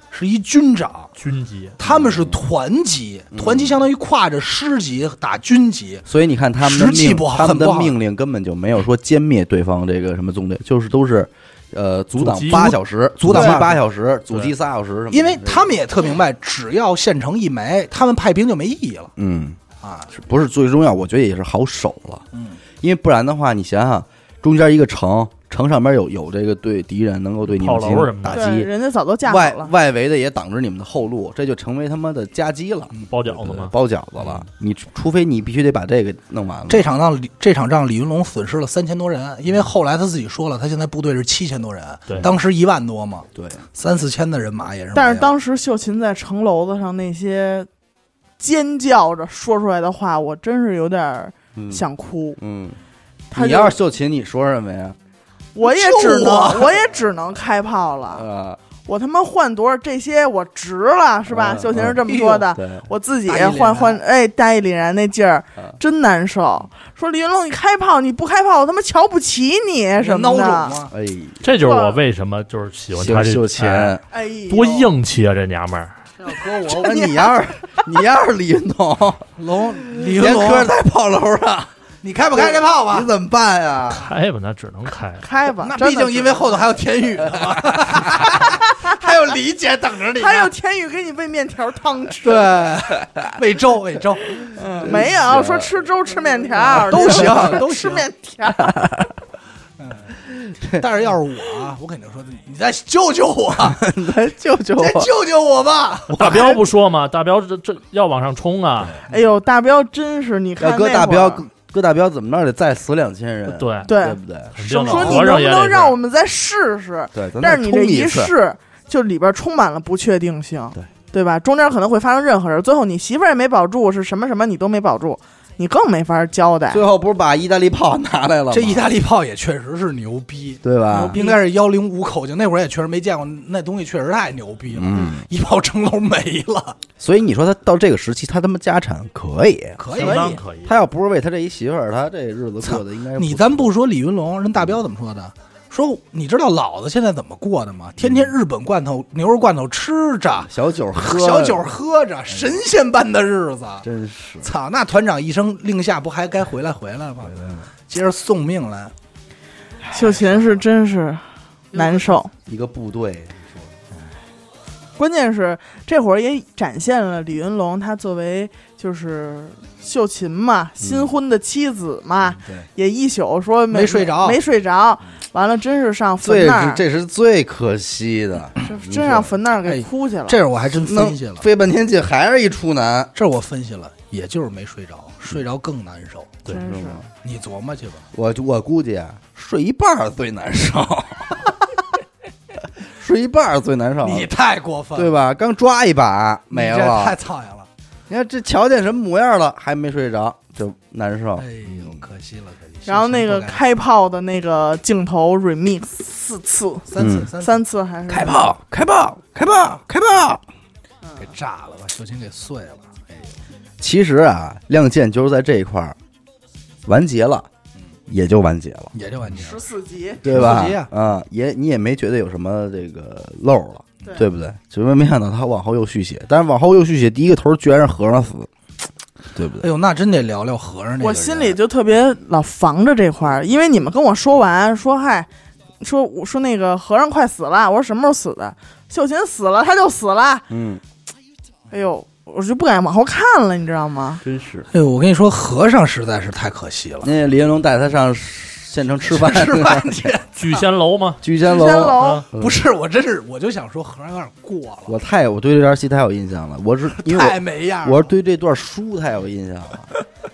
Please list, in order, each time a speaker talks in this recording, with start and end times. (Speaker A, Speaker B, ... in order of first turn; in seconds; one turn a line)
Speaker A: 0.1-1.1
Speaker B: 1.2-1.8
Speaker A: 1.8-6.0
Speaker C: 1.8-2.4
Speaker C: 3.3-3.8
Speaker C: 6.0-15.7
Speaker A: 6.6-8.0
Speaker B: 12.2-13.7
Speaker A: 13.2-13.8
Speaker A: 15.1-19.1
Speaker C: 19.1-19.6
Speaker A: 19.8-20.1
Speaker C: 20.1-22.2
Speaker A: 22.3-22.6
Speaker C: 22.8-28.7
Speaker B: 27.5-28.5
Speaker D: 28.3-29.7
Speaker C: 29.2-36.9
Speaker B: 33.1-33.7
Speaker A: 36.7-45.3
Speaker C: 43.3-43.6
Speaker D: 44.9-47.7
Speaker D: 48.4-52.4
Speaker C: 51.5-51.8
Speaker C: 52.4-52.8
Speaker D: 53.3-53.7
Speaker C: 53.3-55.0
Speaker D: 55.5-58.2
Speaker A: 55.6-56.9
Speaker C: 58.1-58.6
Speaker D: 58.8-70.8
Speaker C: 61.3-62.9
Speaker A: 63.2-64.0
Speaker A: 70.0-70.9
Speaker C: 70.9-71.4
Speaker B: 71.4-74.0
Speaker D: 71.6-72.0
Speaker C: 72.9-74.0
Speaker D: 74.1-74.9
Speaker B: 74.5-76.0
Speaker A: 76.2-77.0
Speaker D: 76.3-77.3
Speaker C: 76.7-79.2
Speaker A: 79.4-80.7
Speaker C: 80.1-81.7
Speaker A: 82.0-83.1
Speaker C: 82.3-84.1
Speaker B: 83.9-85.2
Speaker D: 85.2-86.6
Speaker A: 85.6-90.5
Speaker D: 88.3-89.0
Speaker D: 90.2-92.5
Speaker A: 92.2-94.6
Speaker D: 94.6-98.9
Speaker C: 94.8-95.7
Speaker C: 96.6-97.6
Speaker A: 96.6-98.1
Speaker C: 98.6-99.1
Speaker A: 99.8-103.8
Speaker C: 100.5-100.8
Speaker C: 103.7-105.1
Speaker A: 104.8-106.5
Speaker B: 106.1-108.9
Speaker D: 106.2-106.6
Speaker D: 109.1-111.5
Speaker C: 110.6-115.2
Speaker B: 113.5-113.9
Speaker D: 113.8-114.2
Speaker B: 114.5-116.0
Speaker D: 114.8-126.8
Speaker A: 114.9-115.2
Speaker C: 117.1-118.3
Speaker C: 126.7-128.8
Speaker A: 128.5-136.8
Speaker C: 130.6-131.2
Speaker D: 130.9-131.4
Speaker C: 134.7-135.3
Speaker C: 137.0-143.7
Speaker A: 139.8-140.4
Speaker B: 139.9-140.7
Speaker A: 142.6-153.8
Speaker C: 150.4-151.6
Speaker C: 153.8-154.5
Speaker A: 154.4-157.3
Speaker C: 157.2-157.7
Speaker A: 157.9-158.9
Speaker D: 159.9-162.3
Speaker A: 161.7-162.2
Speaker C: 162.4-163.6
Speaker D: 165.0-176.8
Speaker C: 170.8-171.1
Speaker A: 173.7-174.4
Speaker C: 176.2-179.3
Speaker D: 178.6-180.4
Speaker A: 179.6-181.4
Speaker C: 180.8-183.1
Speaker A: 183.1-186.4
Speaker D: 186.5-187.0
Speaker C: 186.5-187.1
Speaker A: 187.2-188.0
Speaker C: 188.1-191.4
Speaker C: 193.0-194.3
Speaker A: 194.0-195.1
Speaker C: 194.9-197.2
Speaker A: 196.5-197.7
Speaker C: 198.1-202.0
Speaker A: 201.4-203.6
Speaker D: 202.8-208.5
Speaker A: 206.9-207.6
Speaker C: 207.0-207.3
Speaker C: 208.1-210.4
Speaker D: 211.0-211.3
Speaker A: 211.2-213.3
Speaker C: 213.8-215.9
Speaker C: 216.8-217.5
Speaker C: 218.1-218.9
Speaker A: 218.9-219.6
Speaker D: 219.3-220.2
Speaker C: 220.2-228.5
Speaker A: 220.2-220.9
Speaker C: 229.3-229.7
Speaker A: 229.6-231.6
Speaker D: 231.0-235.3
Speaker D: 235.8-240.4
Speaker C: 240.5-240.8
Speaker D: 241.7-244.2
Speaker B: 244.3-244.6
Speaker C: 244.3-244.6
Speaker A: 244.7-247.1
Speaker C: 247.0-250.1
Speaker A: 249.0-250.7
Speaker B: 250.3-251.2
Speaker C: 251.2-252.6
Speaker D: 251.4-252.2
Speaker B: 251.8-252.2
Speaker A: 252.3-254.9
Speaker C: 254.9-259.9
Speaker A: 256.9-258.1